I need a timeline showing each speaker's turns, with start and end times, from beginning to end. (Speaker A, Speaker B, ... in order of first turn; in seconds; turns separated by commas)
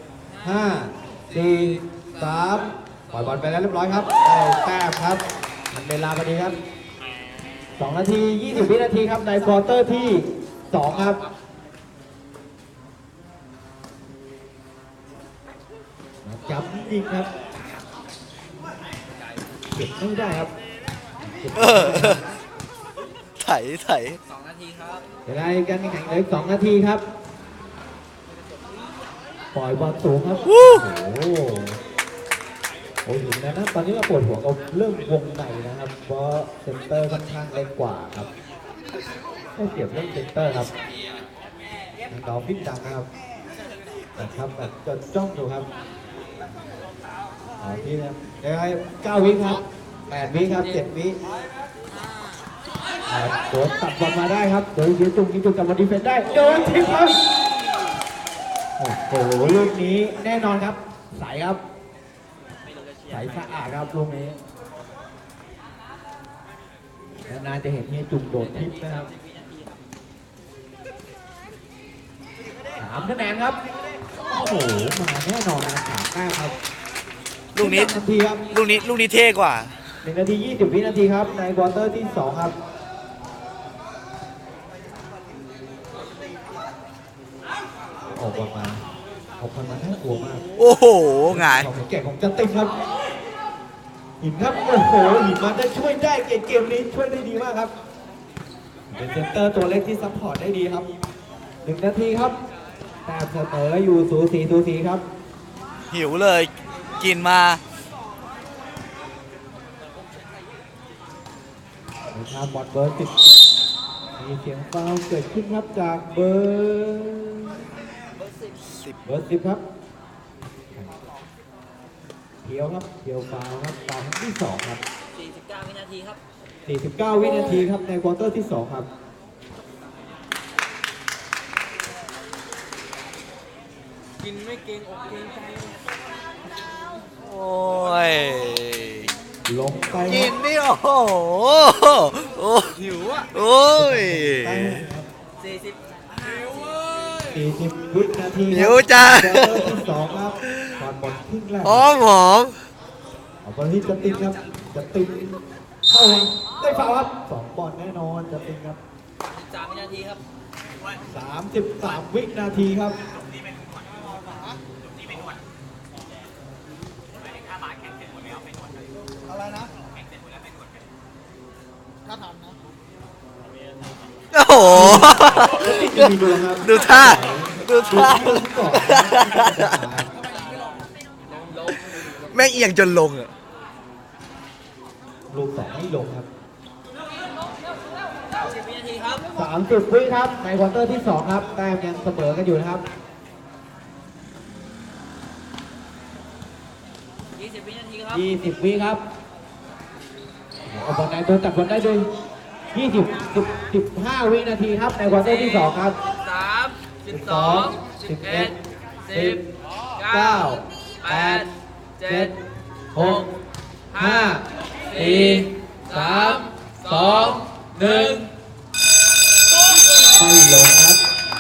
Speaker A: 0.4-6.6, Speaker A: 7.8-11.2, Speaker A: 16.2-17.3, Speaker A: 19.7-20.5, Speaker A: 21.2-22.3, Speaker B: 21.6-22.2, Speaker B: 23.4-24.2, Speaker A: 25.2-27.0, Speaker A: 29.5-31.8, Speaker B: 30.5-30.8, Speaker A: 33.0-38.3, Speaker A: 39.6-40.7, Speaker A: 42.1-43.1, Speaker A: 44.2-45.7, Speaker A: 47.6-51.2, Speaker A: 53.1-57.2, Speaker A: 58.8-61.6, Speaker A: 63.1-64.4, Speaker A: 67.3-69.1, Speaker A: 72.8-73.6, Speaker A: 74.2-76.6, Speaker B: 77.5-77.9, Speaker A: 77.6-78.4, Speaker B: 78.5-79.7, Speaker A: 80.0-82.5, Speaker A: 88.1-88.8, Speaker A: 89.4-90.4, Speaker B: 90.6-91.7, Speaker A: 91.3-92.7, Speaker A: 94.2-97.7, Speaker A: 98.9-100.9, Speaker A: 101.6-102.4, Speaker A: 103.1-105.0, Speaker B: 105.9-107.6, Speaker A: 112.1-113.2, Speaker A: 114.2-117.6, Speaker B: 118.7-119.0, Speaker A: 119.0-119.6, Speaker A: 122.4-124.8, Speaker C: 125.4-126.1, Speaker A: 126.7-128.9, Speaker B: 137.2-139.1, Speaker A: 139.4-140.3, Speaker B: 140.1-144.9, Speaker A: 143.7-145.1, Speaker C: 145.4-145.7, Speaker C: 146.3-146.6, Speaker A: 147.2-151.9, Speaker B: 148.5-149.8, Speaker B: 151.6-152.6, Speaker A: 153.4-158.8, Speaker C: 159.5-160.2, Speaker A: 161.1-162.9, Speaker B: 174.3-176.1, Speaker A: 174.7-180.1, Speaker B: 176.6-179.6, Speaker B: 182.1-183.3, Speaker A: 185.3-186.3, Speaker C: 188.5-189.2, Speaker A: 189.3-192.8, Speaker C: 197.4-198.1, Speaker A: 198.1-199.0, Speaker A: 200.7-202.1, Speaker A: 202.7-206.0, Speaker C: 206.3-206.8, Speaker A: 207.1-208.5, Speaker A: 209.1-209.4, Speaker A: 210.0-211.5, Speaker A: 212.0-212.3, Speaker A: 212.9-213.2, Speaker A: 213.9-218.3, Speaker A: 220.1-221.0